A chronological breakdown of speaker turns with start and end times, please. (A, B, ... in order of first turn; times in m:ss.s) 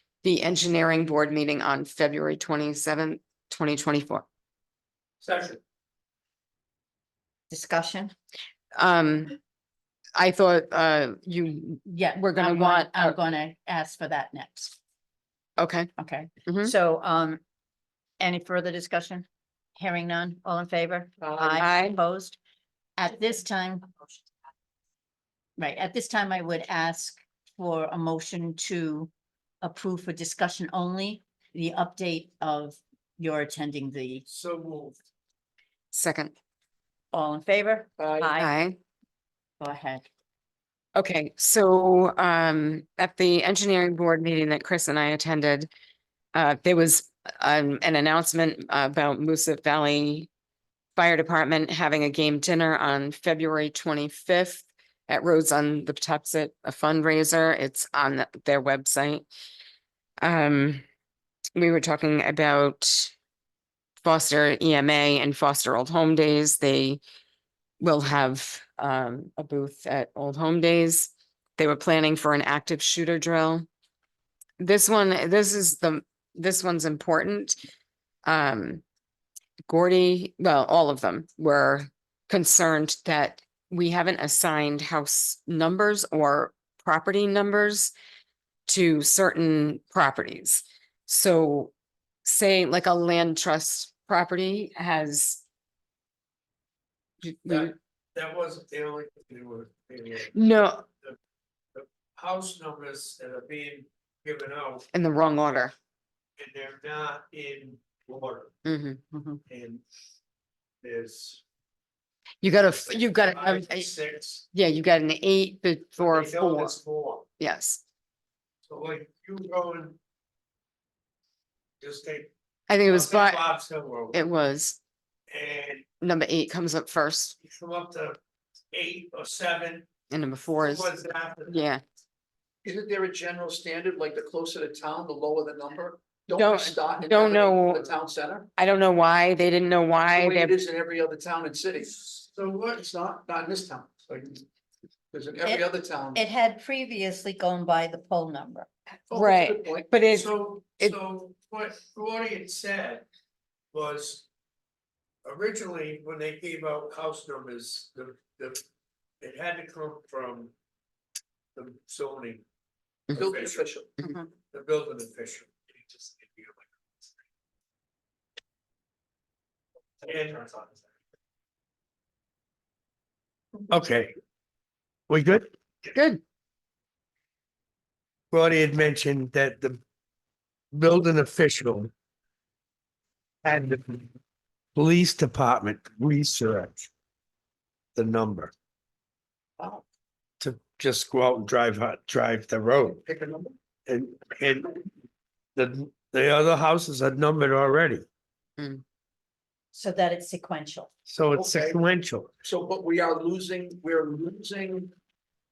0:00.2-0:04.3 A
0:05.2-0:05.6 B
0:07.5-0:08.1 C
0:08.7-0:09.4 A
0:10.2-0:13.2 A
0:11.9-0:14.8 C
0:15.6-0:15.9 A
0:16.0-0:17.4 C
0:16.5-0:16.7 A
0:18.2-0:19.3 C
0:19.8-0:22.4 C
0:21.4-0:22.0 A
0:23.0-0:23.9 C
0:25.6-0:29.1 C
0:29.6-0:34.2 C
0:34.3-0:35.0 B
0:35.9-0:36.3 A
0:37.1-0:38.5 C
0:38.0-0:38.3 D
0:38.4-0:38.8 A
0:39.6-0:40.1 C
0:41.0-0:45.7 A
0:46.3-0:50.3 A
0:51.0-0:59.3 A
1:00.2-1:00.8 A
1:01.6-1:03.1 A
1:04.0-1:07.0 A
1:07.8-1:13.6 A
1:14.6-1:17.6 A
1:18.2-1:18.8 A
1:19.7-1:27.9 A
1:28.7-1:31.7 A
1:32.2-1:35.4 A
1:37.2-1:37.7 A
1:37.5-1:40.4 B
1:40.3-1:40.9 A
1:41.7-1:44.9 B
1:44.9-1:45.7 A
1:46.4-1:48.5 B
1:48.6-1:49.0 A
1:49.1-1:49.4 C
1:49.5-1:49.8 B
1:50.8-1:51.4 B
1:52.4-1:53.9 A
1:52.9-1:54.4 B
1:54.5-1:56.8 A
1:56.0-1:57.3 B
1:57.4-1:57.8 A
1:58.7-2:00.0 B
2:01.8-2:02.3 B
2:02.7-2:03.5 A
2:02.9-2:04.2 B
2:04.1-2:04.8 A
2:05.3-2:05.9 B
2:06.0-2:07.4 A
2:07.4-2:08.2 B
2:08.7-2:09.9 B
2:10.1-2:10.9 A
2:10.6-2:11.6 B
2:11.5-2:11.8 A
2:12.6-2:18.5 D
2:16.3-2:17.9 A
2:18.6-2:20.6 A
2:20.1-2:22.0 D
2:21.9-2:22.7 B
2:22.7-2:24.3 D
2:25.1-2:26.2 D
2:25.4-2:28.7 C
2:29.1-2:29.9 D
2:29.1-2:31.0 A
2:30.1-2:33.1 B
2:33.7-2:34.3 B
2:35.2-2:38.6 B
2:39.2-2:40.5 B
2:41.6-2:42.4 B
2:43.1-2:43.6 B
2:43.1-2:43.9 D
2:44.0-2:44.3 C
2:44.5-2:46.7 B
2:50.0-2:50.8 B
2:53.7-2:54.1 B
2:55.1-2:55.5 B
2:55.9-2:56.2 A
2:58.3-2:59.8 B
3:00.7-3:01.9 B
3:03.4-3:04.1 B
3:04.8-3:06.9 B
3:08.0-3:08.5 B
3:09.6-3:09.8 D
3:10.4-3:13.0 B
3:13.0-3:13.6 D
3:13.9-3:14.8 B
3:15.6-3:18.0 B
3:18.6-3:18.8 A
3:19.7-3:20.9 C
3:21.1-3:22.3 B
3:21.4-3:21.8 D
3:22.4-3:24.9 D